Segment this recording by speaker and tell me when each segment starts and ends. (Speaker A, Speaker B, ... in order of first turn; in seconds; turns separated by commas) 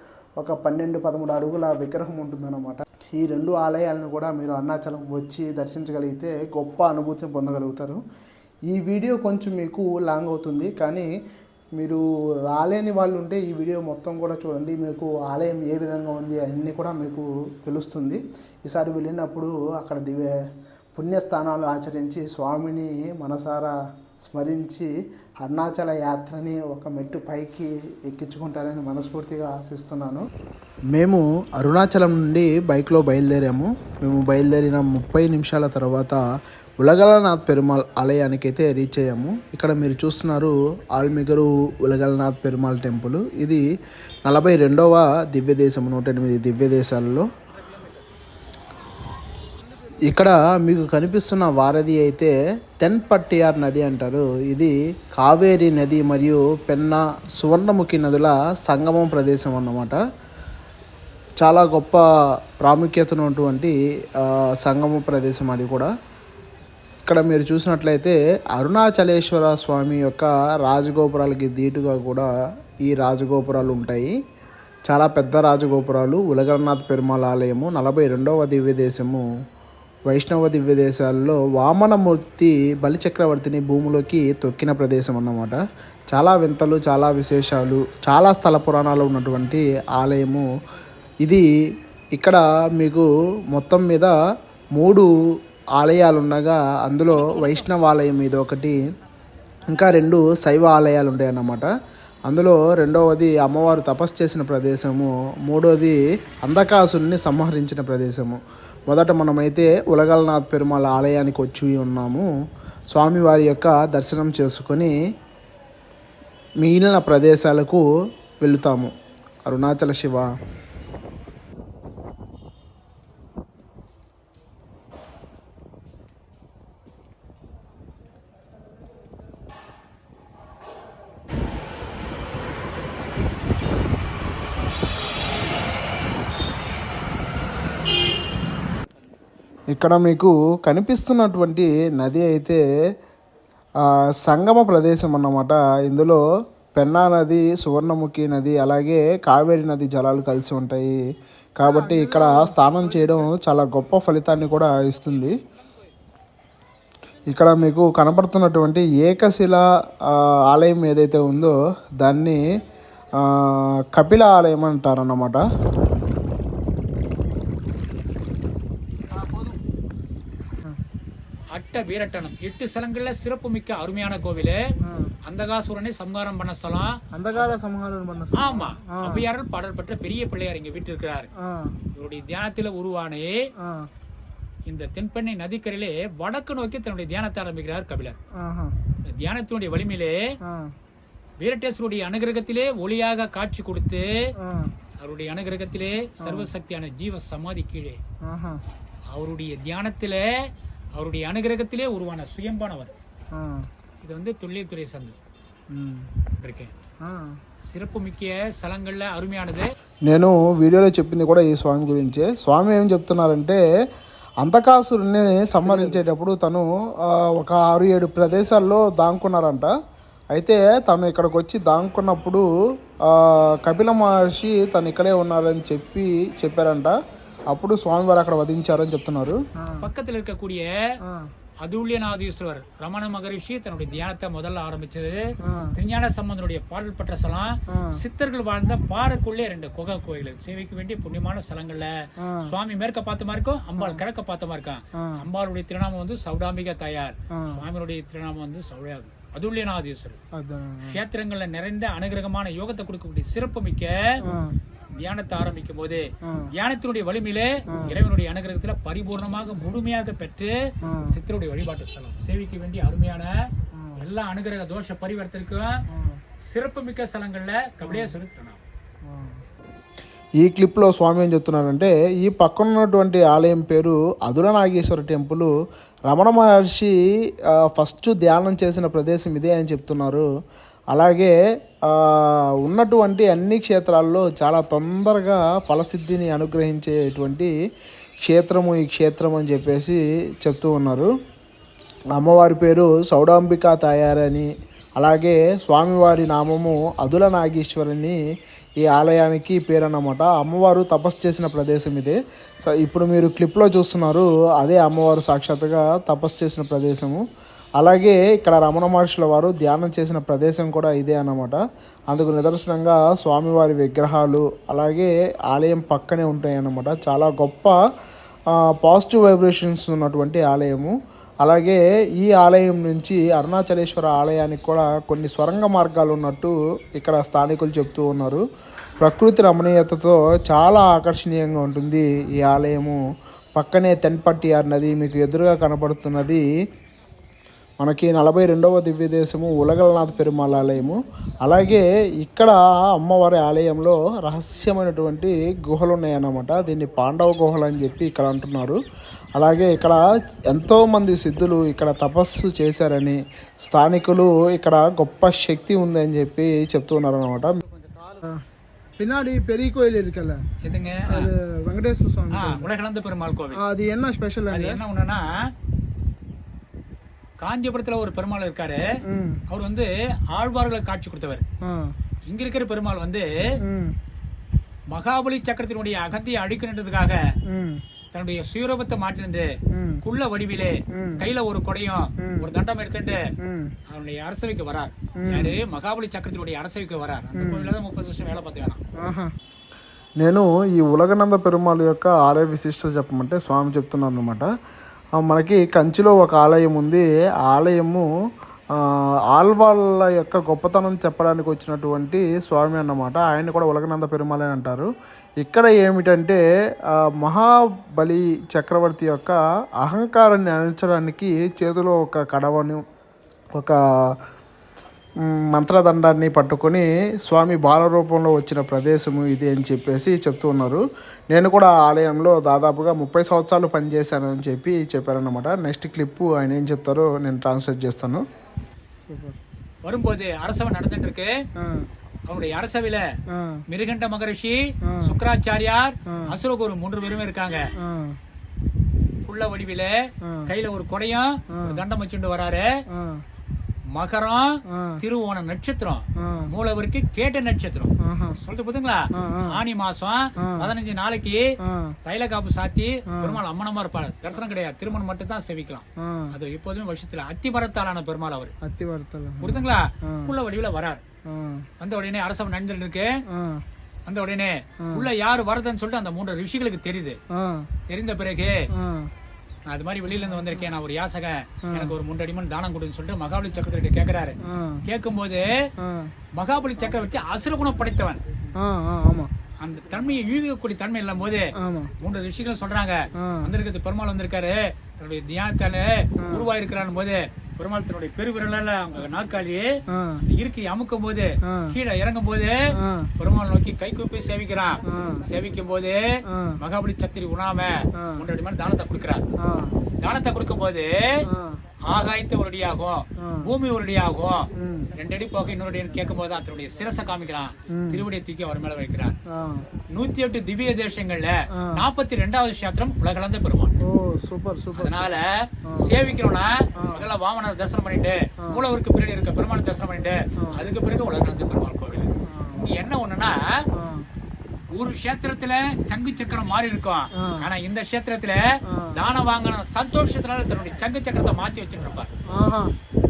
Speaker A: 0.4-8.0, Speaker A: 8.7-11.1, Speaker A: 11.7-20.3, Speaker A: 20.9-24.9, Speaker A: 25.4-30.2, Speaker A: 30.9-36.2, Speaker A: 36.8-43.6, Speaker A: 44.2-47.3, Speaker A: 50.0-60.0, Speaker A: 61.4-62.0, Speaker A: 62.6-65.9, Speaker A: 67.0-72.3, Speaker A: 72.8-74.1, Speaker A: 74.9-79.2, Speaker A: 80.1-85.6, Speaker A: 86.1-90.5, Speaker A: 92.1-94.1, Speaker A: 94.8-95.1, Speaker A: 95.8-98.8, Speaker A: 99.7-101.7, Speaker A: 102.3-112.3, Speaker A: 112.9-114.9, Speaker A: 116.6-117.8, Speaker A: 118.4-118.9, Speaker A: 119.4-120.3, Speaker A: 139.7-142.6, Speaker A: 143.8-146.2, Speaker A: 146.7-150.9, Speaker A: 151.6-155.3, Speaker B: 151.6-152.6, Speaker A: 157.3-162.4, Speaker A: 163.2-165.4, Speaker C: 171.5-174.6, Speaker B: 174.8-175.1, Speaker C: 175.2-177.5, Speaker B: 177.1-179.3, Speaker C: 178.3-181.3, Speaker B: 181.3-181.8, Speaker C: 181.9-183.4, Speaker B: 183.6-183.9, Speaker C: 184.7-188.2, Speaker B: 188.3-188.8, Speaker C: 189.1-190.2, Speaker B: 190.4-190.7, Speaker C: 191.4-194.2, Speaker B: 194.4-194.7, Speaker C: 195.0-198.0, Speaker B: 196.2-196.5, Speaker B: 198.2-198.6, Speaker C: 199.1-200.3, Speaker C: 200.9-202.9, Speaker B: 203.3-203.7, Speaker C: 204.0-205.2, Speaker B: 205.7-206.1, Speaker C: 206.4-206.7, Speaker B: 207.0-207.4, Speaker C: 207.7-209.7, Speaker A: 210.1-213.6, Speaker A: 214.4-219.7, Speaker B: 215.6-216.0, Speaker A: 220.3-222.4, Speaker A: 223.1-227.0, Speaker A: 227.5-229.4, Speaker B: 229.6-229.9, Speaker C: 229.8-230.7, Speaker B: 231.0-231.3, Speaker C: 231.6-235.2, Speaker B: 235.4-235.8, Speaker C: 235.8-241.9, Speaker B: 237.7-238.0, Speaker B: 242.2-242.5, Speaker C: 242.4-250.2, Speaker B: 243.8-244.0, Speaker B: 244.9-245.2, Speaker B: 247.3-247.6, Speaker B: 250.3-251.0, Speaker C: 250.8-253.9, Speaker B: 254.2-254.6, Speaker C: 255.0-263.3, Speaker B: 256.2-256.5, Speaker B: 257.7-258.0, Speaker B: 260.8-261.2, Speaker B: 263.7-264.0, Speaker C: 264.0-265.7, Speaker B: 265.9-266.2, Speaker C: 266.4-268.6, Speaker B: 267.8-268.1, Speaker B: 269.0-269.4, Speaker A: 270.4-275.5, Speaker A: 276.1-276.9, Speaker A: 277.5-280.2, Speaker A: 280.9-281.3, Speaker A: 281.9-287.5, Speaker A: 288.2-291.1, Speaker A: 292.1-298.2, Speaker A: 298.8-307.2, Speaker A: 307.8-317.8, Speaker A: 318.5-328.4, Speaker A: 329.0-333.0, Speaker A: 333.6-336.4, Speaker A: 337.8-348.8, Speaker A: 349.4-357.6, Speaker B: 359.0-360.4, Speaker C: 360.6-361.3, Speaker B: 361.1-362.7, Speaker C: 362.3-363.6, Speaker B: 363.5-364.8, Speaker C: 364.5-365.2, Speaker C: 367.4-368.8, Speaker B: 369.0-369.4, Speaker C: 369.5-371.4, Speaker B: 371.6-371.9, Speaker C: 372.3-373.6, Speaker B: 373.6-374.0, Speaker C: 374.9-377.2, Speaker B: 377.5-377.8, Speaker C: 378.1-379.5, Speaker B: 379.7-380.0, Speaker C: 380.0-383.2, Speaker B: 380.9-381.3, Speaker B: 382.2-382.5, Speaker B: 383.4-383.7, Speaker C: 383.9-388.8, Speaker B: 385.2-385.6, Speaker B: 387.3-387.7, Speaker B: 389.0-389.3, Speaker A: 390.2-394.5, Speaker A: 395.1-398.1, Speaker A: 398.7-404.9, Speaker A: 405.4-412.8, Speaker A: 415.2-428.2, Speaker B: 429.0-429.4, Speaker C: 429.8-431.3, Speaker B: 431.6-431.9, Speaker C: 432.3-433.0, Speaker B: 433.3-433.6, Speaker C: 433.7-437.6, Speaker B: 434.9-435.1, Speaker B: 436.1-436.4, Speaker B: 437.8-438.2, Speaker C: 439.2-439.9, Speaker B: 440.2-440.5, Speaker C: 440.4-442.6, Speaker B: 441.5-441.8, Speaker B: 442.9-443.2, Speaker C: 443.9-451.4, Speaker B: 444.7-445.0, Speaker B: 446.2-446.5, Speaker B: 448.0-448.4, Speaker B: 449.1-449.6, Speaker B: 450.4-450.7, Speaker B: 451.6-452.0, Speaker C: 452.0-458.5, Speaker B: 453.1-453.4, Speaker B: 456.0-456.4, Speaker B: 458.6-460.3, Speaker C: 459.4-461.0, Speaker B: 461.2-461.7, Speaker C: 461.8-463.1, Speaker B: 463.3-463.6, Speaker C: 464.1-467.2, Speaker B: 464.8-465.1, Speaker B: 467.3-467.7, Speaker C: 467.9-468.6, Speaker B: 468.7-469.1, Speaker C: 469.7-475.5, Speaker B: 471.7-471.9, Speaker B: 474.4-474.9, Speaker B: 475.8-476.1, Speaker C: 476.4-478.2, Speaker B: 478.5-479.3, Speaker C: 479.6-481.5, Speaker B: 481.6-481.9, Speaker C: 482.0-489.7, Speaker B: 483.2-483.5, Speaker B: 486.2-486.5, Speaker B: 489.9-490.2, Speaker C: 490.3-492.6, Speaker B: 491.4-491.8, Speaker B: 492.7-493.1, Speaker C: 493.2-496.0, Speaker B: 494.9-495.2, Speaker B: 496.3-496.6, Speaker C: 496.6-499.2, Speaker B: 498.0-498.2, Speaker B: 499.4-499.8, Speaker C: 500.0-500.9, Speaker B: 501.2-501.6, Speaker C: 501.9-509.2, Speaker B: 503.2-503.5, Speaker B: 504.6-504.9, Speaker B: 507.7-508.0, Speaker B: 509.3-509.6, Speaker C: 509.9-513.7, Speaker B: 513.8-515.1, Speaker C: 514.8-523.4, Speaker B: 515.7-516.0, Speaker B: 516.8-517.1, Speaker B: 522.2-522.7, Speaker B: 523.8-524.0, Speaker C: 524.7-528.4, Speaker B: 527.1-527.5, Speaker B: 528.7-529.0, Speaker C: 528.9-532.1, Speaker B: 532.3-532.7